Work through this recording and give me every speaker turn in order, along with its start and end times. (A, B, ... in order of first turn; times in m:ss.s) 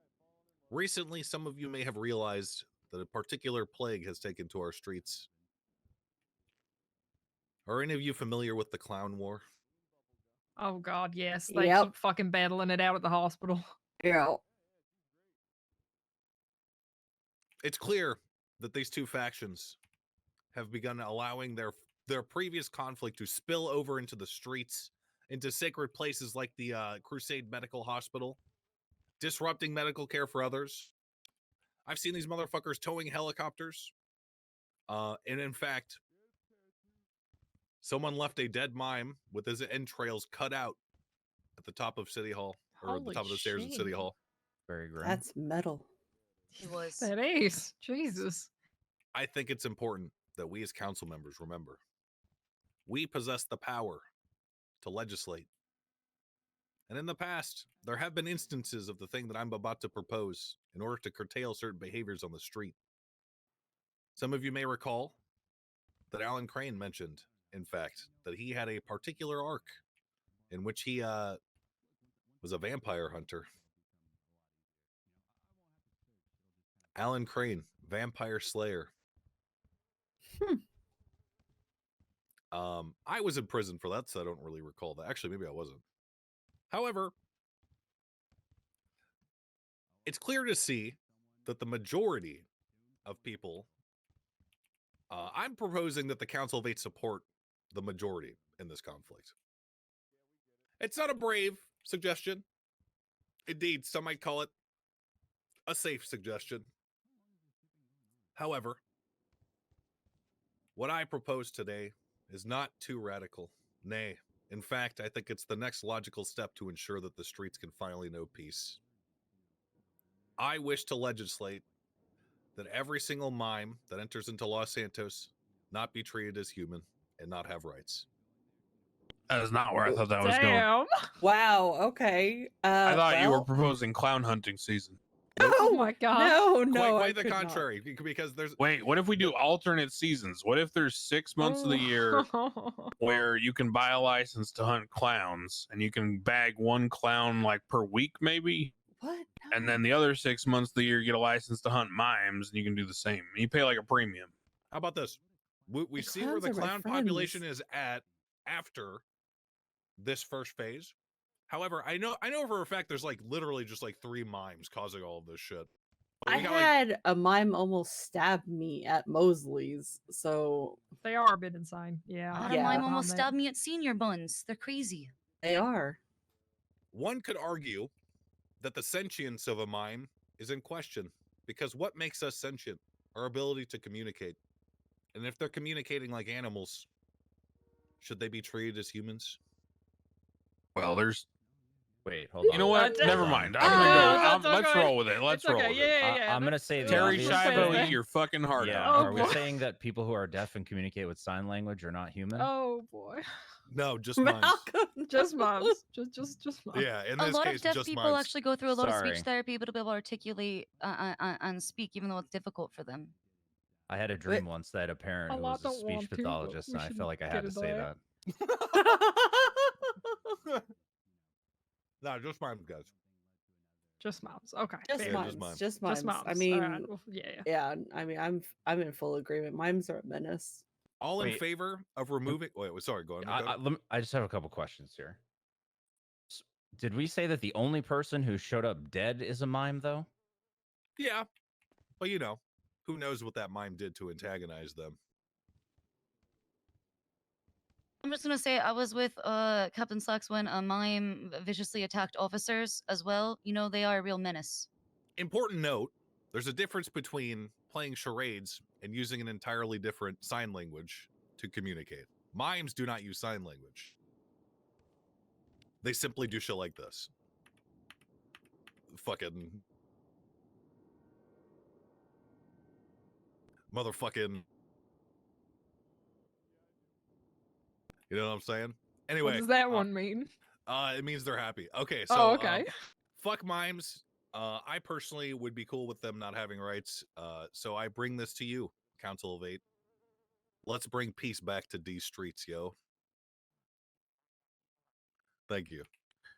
0:00.7-0:05.3 A
0:07.7-0:09.4 A
0:10.6-0:13.7 B
0:11.5-0:11.9 C
0:14.0-0:14.4 C
0:17.6-0:19.8 A
0:20.5-0:28.4 A
0:29.2-0:30.9 A
0:31.9-0:33.9 A
0:34.9-0:36.0 A
0:37.8-0:40.8 A
0:41.6-0:44.2 A
0:42.8-0:44.0 C
0:44.7-0:45.2 D
0:45.0-0:45.9 C
0:46.6-0:47.1 E
0:47.0-0:48.5 B
0:49.1-0:51.8 A
0:52.9-0:54.1 A
0:54.8-0:55.5 A
0:56.9-1:02.8 A
1:04.2-1:05.2 A
1:06.1-1:09.8 A
1:10.5-1:11.4 A
1:12.4-1:13.5 A
1:17.0-1:18.9 A
1:22.5-1:25.8 A
1:26.7-1:27.1 A
1:30.0-1:32.5 A
1:33.1-1:33.7 A
1:35.1-1:39.3 A
1:40.8-1:42.4 A
1:43.5-1:44.5 A
1:45.7-1:46.7 A
1:48.4-1:48.8 A
1:50.8-1:58.8 A
2:00.4-2:01.6 A
2:02.6-2:08.1 A
2:09.3-2:10.7 F
2:10.2-2:11.1 B
2:11.2-2:13.5 C
2:12.8-2:15.0 F
2:15.4-2:17.7 C
2:15.4-2:16.4 B
2:16.7-2:18.6 A
2:18.6-2:22.3 F
2:21.4-2:22.9 B
2:23.0-2:28.7 F
2:29.0-2:29.8 C
2:29.5-2:34.3 F
2:34.7-2:39.0 A
2:36.0-2:37.4 C
2:40.0-2:40.9 A
2:41.5-2:45.7 A
2:46.2-2:46.7 A
2:46.3-2:50.8 C
2:51.0-2:53.3 B
2:52.3-2:52.9 C
2:52.3-2:55.1 E
2:55.4-2:56.0 C
2:56.9-2:57.9 A
2:58.6-3:04.4 A
3:05.1-3:06.9 A
3:08.0-3:09.4 A
3:10.8-3:11.3 F
3:12.0-3:13.9 D
3:12.4-3:16.0 F
3:12.5-3:18.0 B
3:13.8-3:14.3 C
3:16.0-3:18.0 D
3:16.8-3:19.4 F
3:18.6-3:22.5 D
3:18.8-3:19.6 B
3:22.4-3:23.2 B
3:23.7-3:24.7 A
3:24.2-3:25.8 C
3:25.1-3:26.9 B
3:26.7-3:28.3 A
3:27.2-3:33.1 E
3:28.7-3:29.3 D
3:33.9-3:38.0 D
3:35.3-3:37.9 B
3:38.7-3:39.9 C
3:42.0-3:42.9 A
3:44.0-3:47.5 B
3:44.9-3:46.9 C
3:45.0-3:45.6 A
3:47.4-3:50.6 C
3:51.0-3:53.6 A
3:51.2-3:51.4 D
3:53.2-3:55.2 D
3:56.3-4:00.1 D
4:01.0-4:01.3 A
4:02.0-4:05.0 A
4:08.0-4:14.7 E
4:15.2-4:24.0 A
4:25.8-4:27.1 A
4:28.9-4:29.6 A
4:33.7-4:34.4 A
4:38.1-4:39.9 A
4:39.2-4:40.3 B
4:40.7-4:49.6 A
4:42.1-4:42.7 B
4:50.7-4:52.8 A
4:55.5-4:55.9 A